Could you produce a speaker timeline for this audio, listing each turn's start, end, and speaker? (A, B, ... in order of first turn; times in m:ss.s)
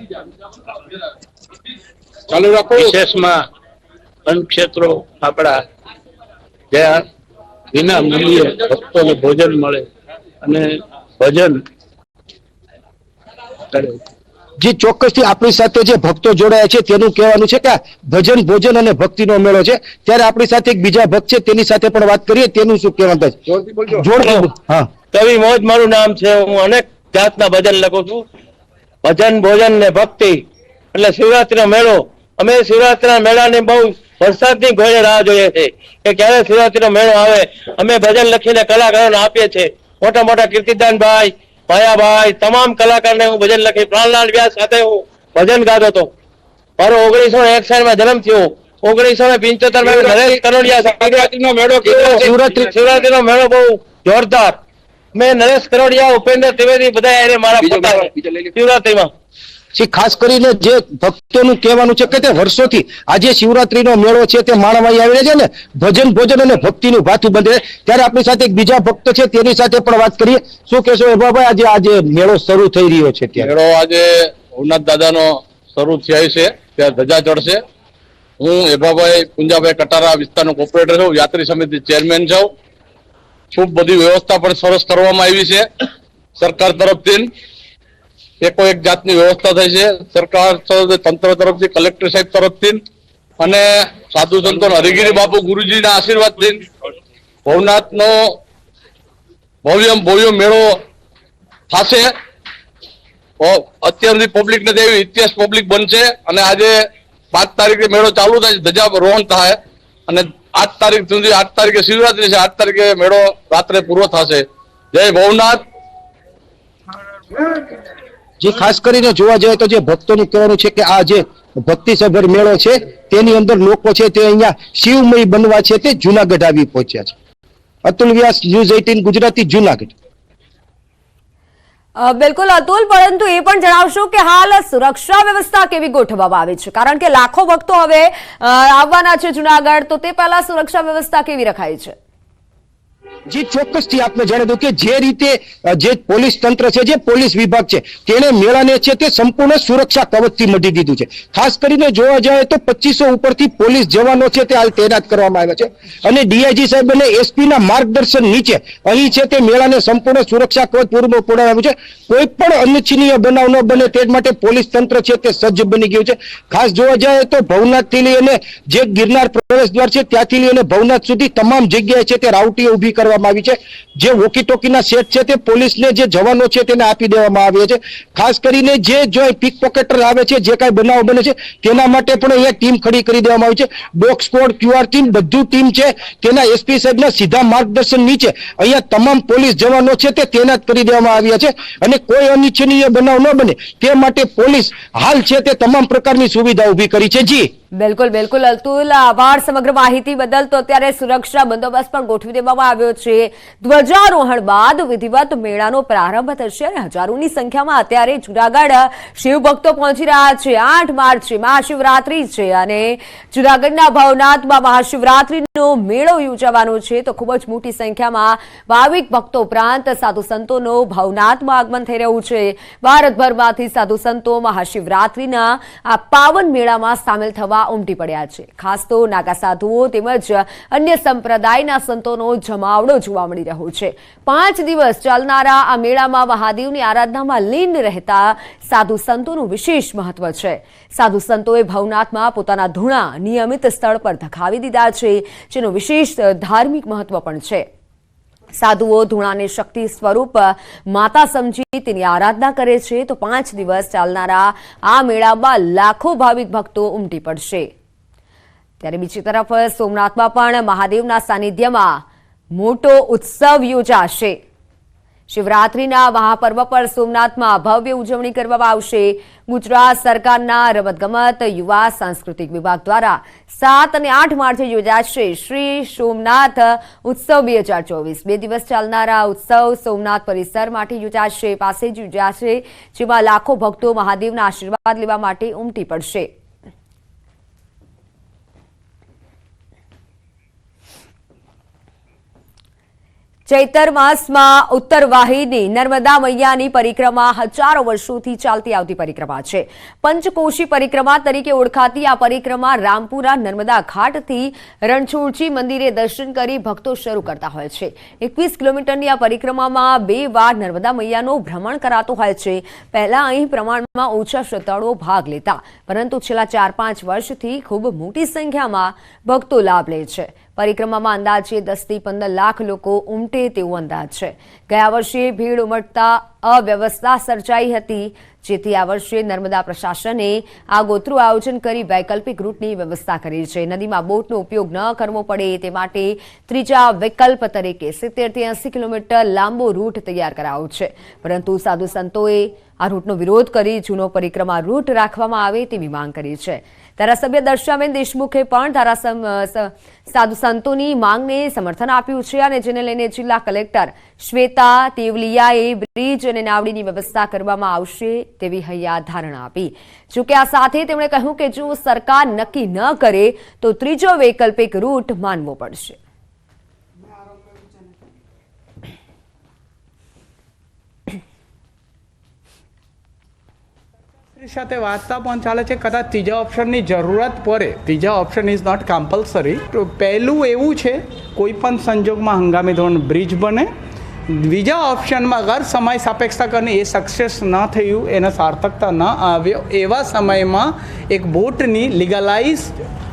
0:02.3-0:02.9 A
0:02.6-0:03.4 B
0:04.2-0:05.6 B
0:06.7-0:07.0 B
0:07.7-0:09.9 B
0:10.4-0:11.6 B
0:13.7-0:14.0 B
0:14.6-0:23.4 C
0:23.5-0:23.9 A
0:23.9-0:24.9 C
0:25.1-0:28.2 D
0:29.0-0:30.4 D
0:30.9-0:46.1 D
0:46.8-0:51.3 D
0:49.8-0:50.3 A
0:50.9-0:52.6 A
0:51.8-0:54.6 D
0:52.1-0:52.6 C
0:55.2-0:59.1 D
0:57.8-0:58.4 A
0:59.7-1:13.5 C
1:13.4-1:17.6 A
1:18.4-1:22.5 A
1:23.5-1:25.7 A
1:26.4-1:27.3 A
1:28.4-1:32.8 A
1:33.4-1:36.7 A
1:37.4-1:38.4 A
1:39.6-1:40.8 A
1:41.7-1:42.1 A
1:43.4-1:55.6 A
1:58.4-2:07.1 C
2:07.8-2:09.9 C
2:12.0-2:22.0 E
2:23.3-3:17.5 C
3:17.7-4:07.6 E
4:08.5-4:17.7 E
4:18.8-4:24.4 E
4:25.3-4:46.3 E
4:53.5-6:06.0 E
6:14.3-6:23.7 F
6:24.3-6:32.8 F